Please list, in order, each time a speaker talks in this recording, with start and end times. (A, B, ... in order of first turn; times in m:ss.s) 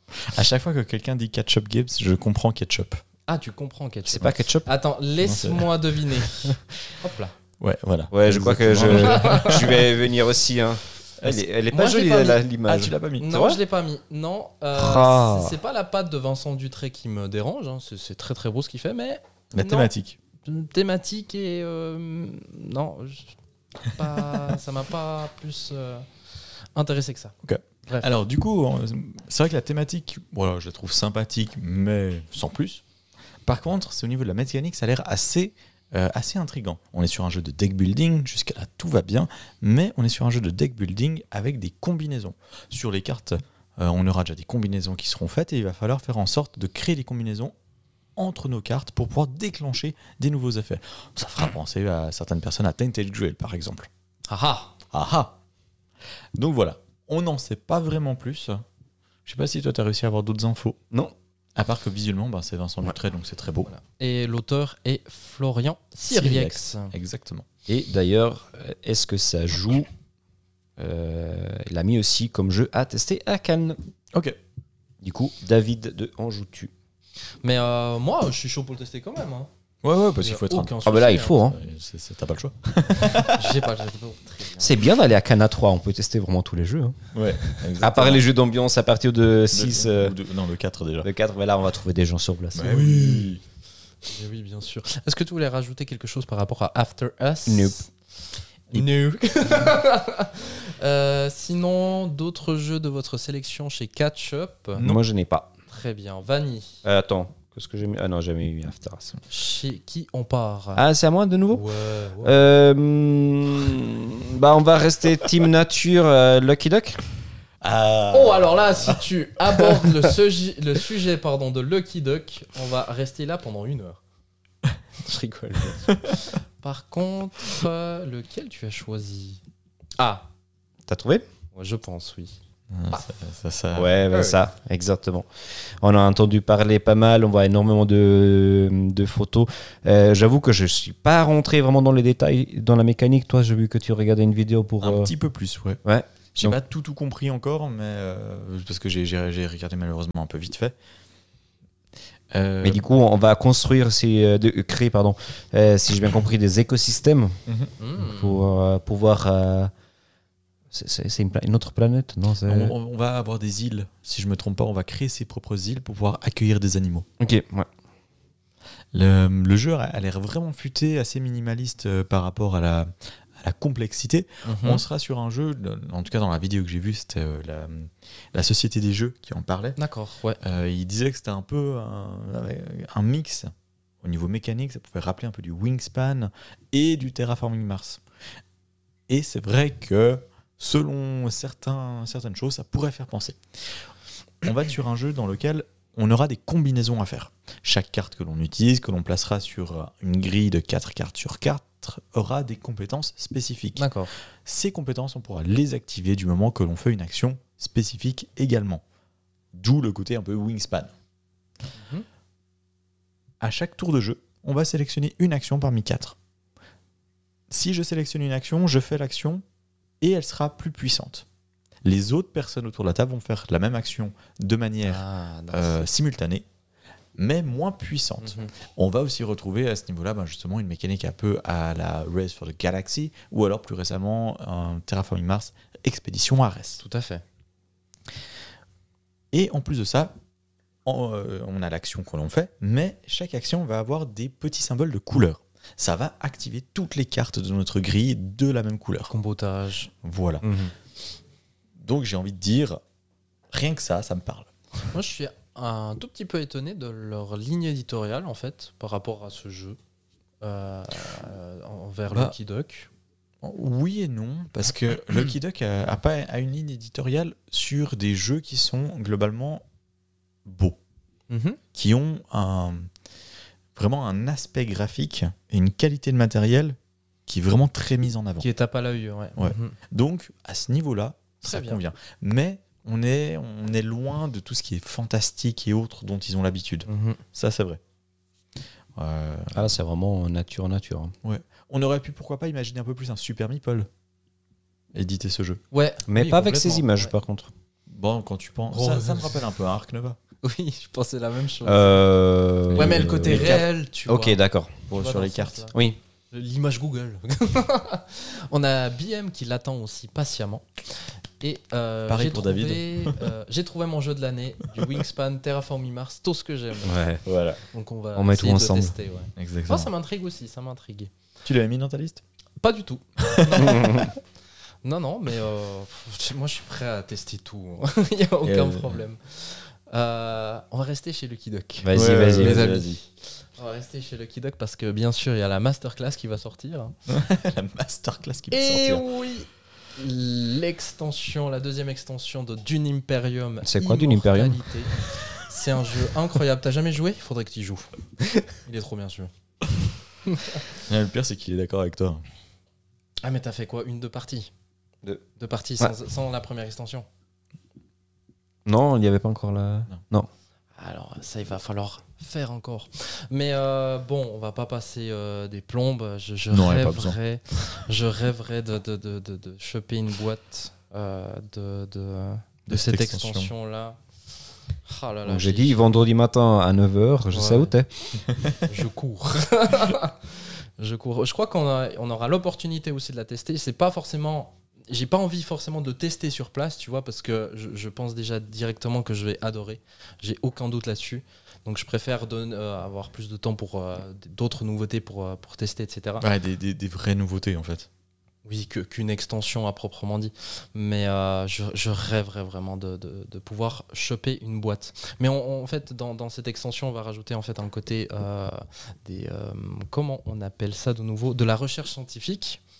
0:00.2-0:03.0 A
0:03.3-0:07.3 B
0:04.0-0:04.7 C
0:05.2-0:06.5 A
0:07.6-0:09.9 A
0:08.1-0:13.6 C
0:08.8-0:09.8 B
0:11.2-0:11.5 A
0:11.7-0:12.4 B
0:12.6-0:13.3 A
0:13.2-0:19.9 B
0:14.8-0:15.5 C
0:19.5-0:20.2 A
0:20.4-0:26.1 B
0:26.7-0:27.3 B
0:27.4-0:32.8 A
0:33.4-0:47.5 A
0:48.2-0:53.9 A
0:54.3-0:54.7 B
0:54.9-0:55.4 A
0:56.3-0:58.6 A
0:59.2-1:00.8 A
1:01.6-1:03.7 A
1:03.6-1:06.9 B
1:06.1-1:07.4 A
1:07.7-1:09.9 C
1:10.8-1:13.8 C
1:15.0-1:16.7 C
1:17.4-1:19.5 B
1:19.8-1:20.8 A
1:20.2-1:21.5 B
1:20.8-1:21.6 C
1:21.3-1:23.5 A
1:23.0-1:24.8 B
1:24.6-1:27.0 C
1:27.1-1:28.2 A
1:27.8-1:30.2 C
1:29.5-1:31.1 A
1:31.0-1:32.9 C
1:32.5-1:33.4 A
1:32.6-1:33.3 B
1:34.1-1:37.9 B
1:37.5-1:37.8 C
1:38.7-1:44.8 B
1:44.8-1:45.0 A
1:44.8-1:45.5 C
1:45.7-1:46.8 B
1:46.8-1:49.2 C
1:49.3-1:50.8 B
1:50.8-1:51.6 C
1:51.5-1:52.4 B
1:52.2-1:57.0 C
1:57.6-1:59.0 A
1:58.1-2:04.0 B
2:05.0-2:09.4 B
2:10.0-2:10.3 B
2:10.9-2:11.2 C
2:11.5-2:12.4 B
2:12.7-2:14.0 A
2:13.7-2:15.3 C
2:15.8-2:25.1 C
2:24.8-2:25.8 A
2:25.8-2:26.6 C
2:26.3-2:30.7 A
2:32.3-2:32.8 A
2:32.6-2:37.4 C
2:37.5-2:37.7 A
2:37.8-2:38.4 B
2:38.0-2:39.7 C
2:40.7-2:42.7 C
2:42.4-2:47.1 A
2:47.2-2:47.7 C
2:48.9-2:59.8 A
2:54.4-2:54.8 B
2:59.8-3:00.4 B
3:00.4-3:08.0 A
3:09.1-3:13.4 A
3:14.4-3:23.9 A
3:23.8-3:24.1 B
3:24.4-3:28.8 A
3:29.5-3:30.9 A
3:31.8-3:32.0 B
3:33.4-3:36.2 A
3:37.5-3:39.4 A
3:40.0-3:41.2 A
3:41.8-3:46.4 A
3:44.8-3:45.9 B
3:47.2-3:56.8 A
3:48.2-3:48.5 B
3:56.8-3:57.2 B
3:59.3-4:00.1 A
4:00.8-4:09.1 A
4:09.1-4:09.9 B
4:10.0-4:10.5 A
4:11.8-4:12.8 A
4:13.5-4:14.5 A
4:14.9-4:19.8 B
4:20.4-4:22.9 B
4:23.4-4:29.6 A
4:30.4-4:30.8 A
4:31.3-4:31.6 B
4:31.7-4:32.9 A
4:33.7-4:38.5 A
4:38.4-4:39.8 B
4:39.4-4:47.8 A
4:41.4-4:41.8 B
4:46.8-4:47.2 B
4:49.0-4:49.7 A
4:49.5-4:51.1 C
4:51.2-4:53.9 A
4:54.9-4:55.6 A
4:55.7-4:57.1 B
4:56.1-4:57.5 C
4:57.9-5:00.2 A
4:58.7-4:59.4 B
5:00.4-5:02.0 B
5:01.6-5:04.8 C
5:02.7-5:03.6 A
5:02.7-5:05.7 B
5:04.9-5:05.7 A
5:05.7-5:06.0 C
5:06.3-5:17.0 B
5:12.1-5:13.3 A
5:16.8-5:17.2 C
5:17.2-5:17.6 A
5:17.7-5:21.1 B
5:18.2-5:18.9 C
5:19.4-5:19.9 A
5:21.4-5:22.2 A
5:22.6-5:24.2 B
5:23.2-5:24.0 A
5:23.6-5:24.1 C
5:24.8-5:36.9 B
5:28.4-5:29.0 A
5:31.8-5:32.7 C
5:31.9-5:33.0 A
5:37.1-5:39.0 A
5:38.5-5:47.9 B
5:43.6-5:44.6 C
5:48.5-5:49.3 B
5:50.2-5:50.6 B
5:50.7-5:52.2 A
5:53.2-5:54.5 B
5:55.4-5:57.1 B
5:58.6-6:00.3 C
6:00.8-6:14.0 B
6:06.5-6:07.2 A
6:12.7-6:13.5 A
6:14.8-6:15.9 B
6:15.2-6:17.9 C
6:17.3-6:17.7 B
6:18.6-6:36.3 B
6:36.2-6:37.9 A
6:38.4-6:52.6 B